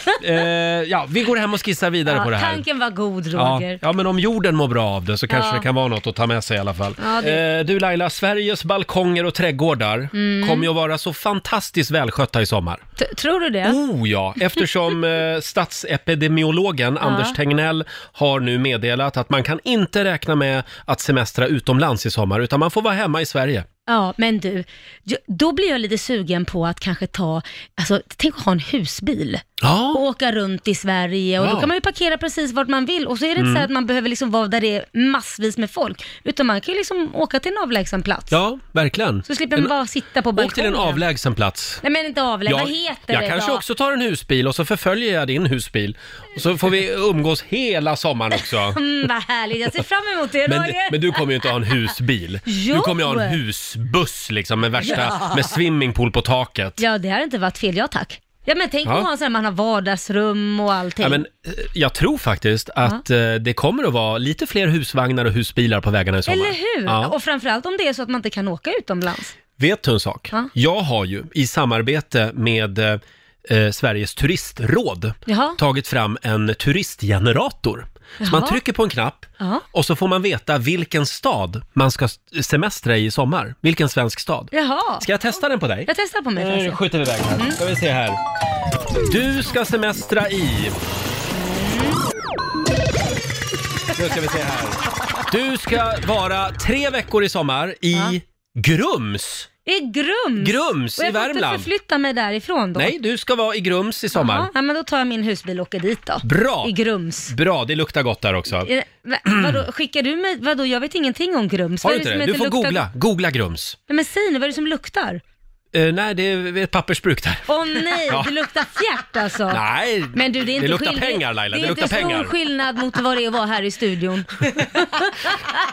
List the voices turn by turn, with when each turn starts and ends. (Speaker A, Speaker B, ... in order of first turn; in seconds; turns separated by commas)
Speaker A: 0.2-2.7, Speaker B: 2.1-3.8, Speaker A: 3.4-12.8, Speaker B: 5.3-5.7, Speaker B: 7.0-7.4, Speaker B: 10.1-10.7, Speaker B: 13.0-13.8, Speaker A: 13.6-23.7, Speaker B: 17.0-17.4, Speaker B: 23.9-38.4, Speaker A: 29.6-30.0, Speaker A: 31.4-31.7, Speaker A: 33.4-33.7, Speaker A: 38.3-39.7, Speaker B: 39.3-41.0, Speaker A: 40.4-41.8, Speaker B: 41.8-43.6, Speaker A: 42.5-48.8, Speaker B: 48.7-51.2, Speaker A: 50.5-56.8, Speaker B: 52.5-53.4, Speaker B: 54.8-55.4, Speaker B: 56.8-61.2, Speaker A: 61.0-67.1, Speaker B: 66.3-69.3, Speaker A: 69.6-88.2, Speaker B: 75.3-75.6, Speaker B: 78.2-78.6, Speaker B: 84.5-85.1, Speaker B: 85.9-86.8, Speaker A: 89.1-90.8, Speaker B: 91.3-92.0, Speaker A: 94.0-99.5, Speaker B: 99.7-102.9, Speaker A: 100.4-101.7, Speaker A: 102.8-104.5, Speaker B: 104.1-107.3, Speaker A: 106.2-106.7, Speaker A: 107.3-108.7, Speaker B: 108.6-112.8, Speaker A: 109.3-109.6, Speaker A: 111.8-113.8, Speaker B: 113.9-115.2, Speaker A: 115.7-118.4, Speaker B: 117.5-119.6, Speaker A: 119.5-122.3, Speaker B: 120.1-125.6